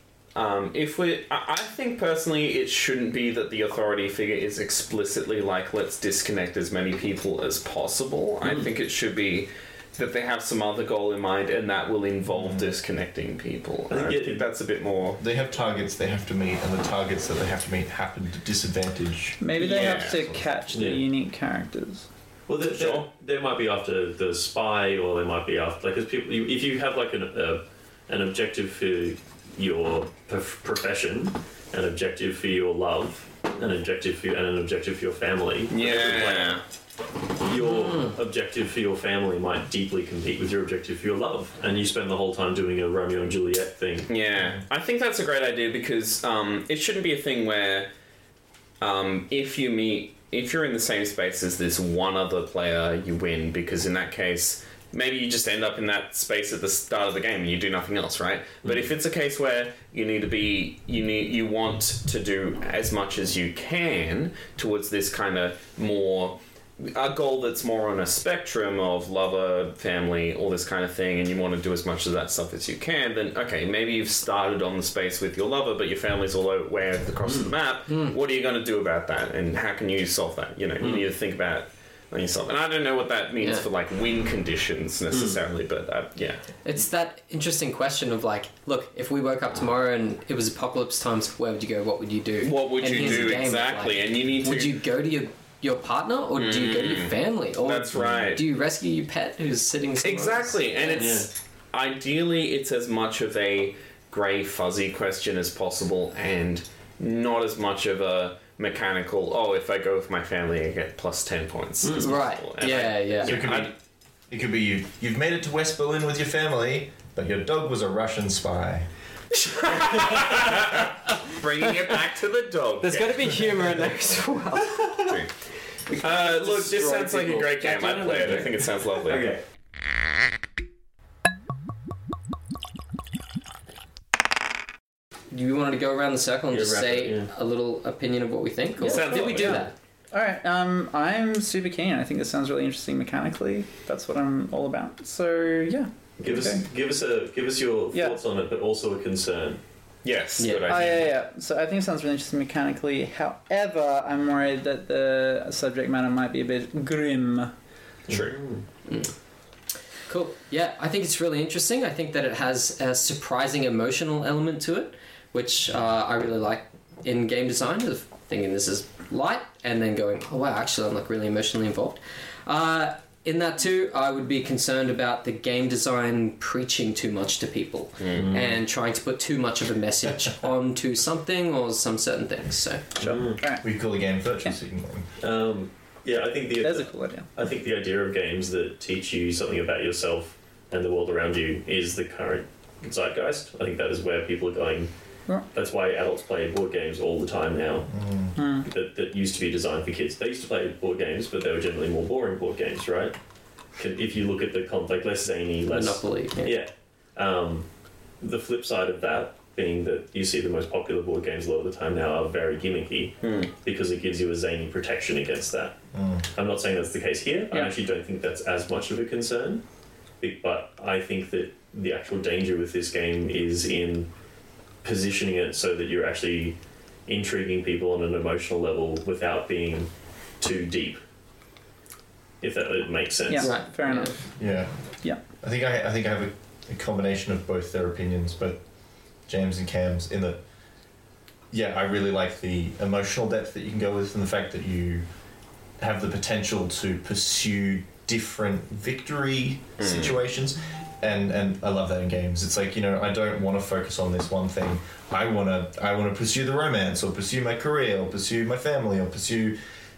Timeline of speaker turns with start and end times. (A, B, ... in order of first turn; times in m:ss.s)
0:00.3-0:15.2 A
0:08.4-0:08.7 B
0:12.3-0:12.7 C
0:13.9-0:14.5 B
0:15.2-0:20.0 C
0:19.4-0:22.1 D
0:19.6-0:20.4 A
0:20.7-0:21.0 B
0:22.5-0:36.6 B
0:22.6-0:23.1 A
0:35.7-0:36.6 A
0:37.4-0:44.1 B
0:37.6-0:38.2 E
0:44.1-0:47.9 A
0:48.8-1:26.4 A
1:17.2-1:17.5 B
1:17.9-1:18.2 E
1:20.8-1:21.1 B
1:23.4-1:23.6 E
1:25.1-1:25.4 B
1:26.6-1:41.2 E
1:32.4-1:34.8 A
1:36.4-1:38.4 A
1:37.9-1:38.3 B
1:40.0-1:53.7 A
1:41.0-1:41.3 B
1:51.8-1:52.1 B
1:52.0-1:53.4 E
1:53.2-1:53.7 C
1:54.3-1:58.9 C
1:59.3-2:03.6 A
2:02.8-2:05.0 E
2:04.7-2:05.0 B
2:05.0-2:05.3 A
2:05.9-2:08.5 E
2:06.0-2:09.3 A
2:08.2-2:09.4 B
2:15.3-2:19.7 E
2:16.5-2:17.3 B
2:18.8-2:26.6 D
2:18.8-2:19.7 A
2:26.2-2:29.6 B
2:27.9-2:28.2 D
2:30.0-2:31.1 A
2:30.4-2:31.0 E
2:30.6-2:37.5 D
2:38.1-2:38.6 B
2:38.1-2:38.4 A
2:38.9-2:39.1 E
2:40.1-3:03.0 E
2:58.0-2:58.3 A
2:58.1-2:58.6 B
3:03.0-3:03.4 B
3:03.0-3:03.6 D
3:03.6-3:05.1 C
3:05.2-3:14.9 B
3:06.6-3:07.3 D
3:15.5-3:17.9 B
3:17.9-3:18.4 C
3:18.4-3:18.7 D
3:18.6-3:23.1 B
3:23.8-3:27.7 B
3:25.7-3:26.6 E
3:28.2-3:35.8 B
3:33.2-3:33.5 A
3:35.9-3:36.3 C
3:36.3-3:39.6 B
3:40.2-3:44.1 B
3:44.8-3:49.9 B
3:50.4-3:51.0 B
3:52.4-3:53.5 B
3:53.3-3:54.2 D
3:53.4-3:54.2 E
3:54.4-3:54.7 C
3:55.4-3:58.6 C
3:59.3-4:00.4 C
4:01.5-4:05.1 C
4:05.8-4:19.6 C
4:09.8-4:10.2 A